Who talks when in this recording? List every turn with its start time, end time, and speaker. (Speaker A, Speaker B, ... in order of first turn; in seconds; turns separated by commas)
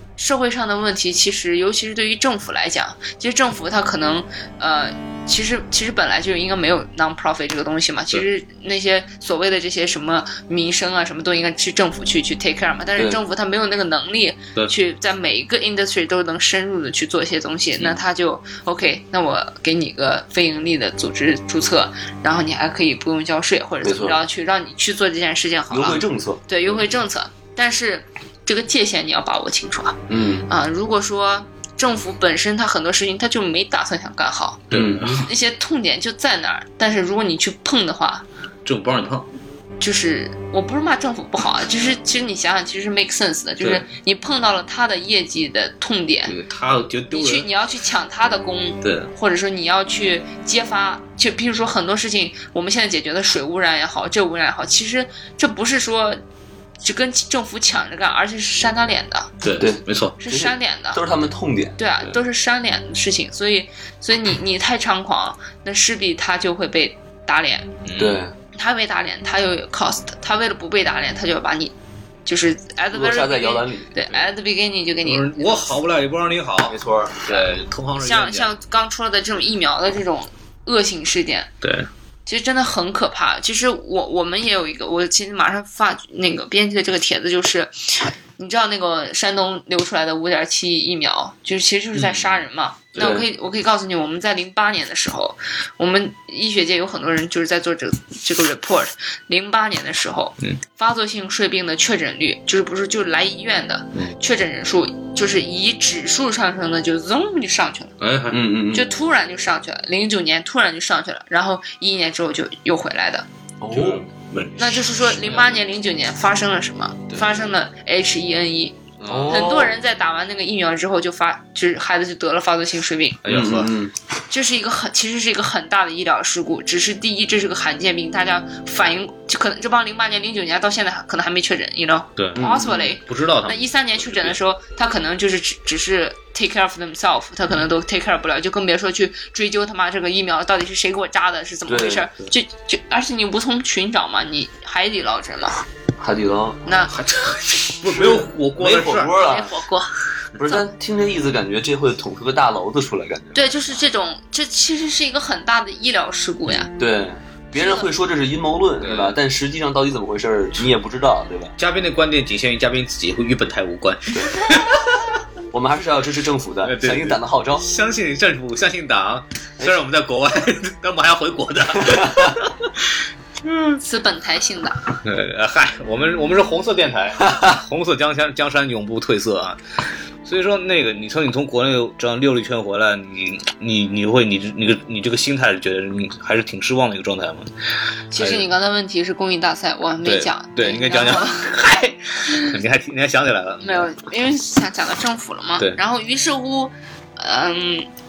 Speaker A: 0.2-38.2, Speaker B: 23.8-24.2, Speaker B: 25.7-26.4, Speaker B: 30.1-30.5, Speaker B: 34.7-35.2, Speaker C: 34.7-35.3, Speaker C: 38.6-39.3, Speaker A: 39.8-46.4, Speaker C: 43.6-43.9, Speaker C: 46.3-47.5, Speaker A: 47.1-56.2, Speaker C: 48.8-49.1, Speaker A: 56.8-59.3, Speaker C: 59.4-60.2, Speaker B: 59.6-61.8, Speaker A: 60.2-61.0, Speaker A: 61.8-67.7, Speaker C: 67.8-68.3, Speaker B: 68.0-68.3, Speaker A: 68.5-71.7, Speaker A: 72.3-75.7, Speaker B: 72.9-73.9, Speaker C: 75.0-78.5, Speaker B: 76.7-77.5, Speaker A: 78.0-81.5, Speaker C: 81.6-81.9, Speaker A: 82.3-108.0, Speaker C: 91.9-92.4, Speaker B: 93.0-93.3, Speaker C: 108.0-108.4, Speaker B: 108.3-108.9, Speaker A: 108.7-113.3, Speaker B: 113.6-114.0, Speaker C: 113.7-115.5, Speaker A: 114.6-123.2, Speaker C: 119.0-119.4, Speaker B: 119.1-119.7, Speaker C: 123.2-123.7, Speaker B: 123.3-123.9, Speaker A: 124.3-145.6, Speaker C: 132.2-134.4, Speaker B: 132.4-132.9, Speaker B: 141.7-142.1, Speaker B: 146.0-146.6, Speaker A: 146.7-146.9, Speaker C: 146.9-149.2, Speaker B: 147.9-149.6, Speaker A: 149.2-150.6, Speaker B: 150.3-153.5, Speaker A: 153.3-156.7, Speaker B: 156.8-161.5, Speaker A: 157.5-157.9, Speaker C: 158.8-159.2, Speaker C: 161.6-164.9, Speaker B: 164.1-164.4, Speaker B: 165.5-167.7, Speaker C: 166.6-173.8, Speaker A: 173.8-174.8, Speaker C: 175.0-179.6, Speaker C: 180.2-187.5, Speaker A: 188.1-191.5, Speaker C: 188.2-188.5, Speaker C: 190.0-193.9, Speaker A: 193.6-197.9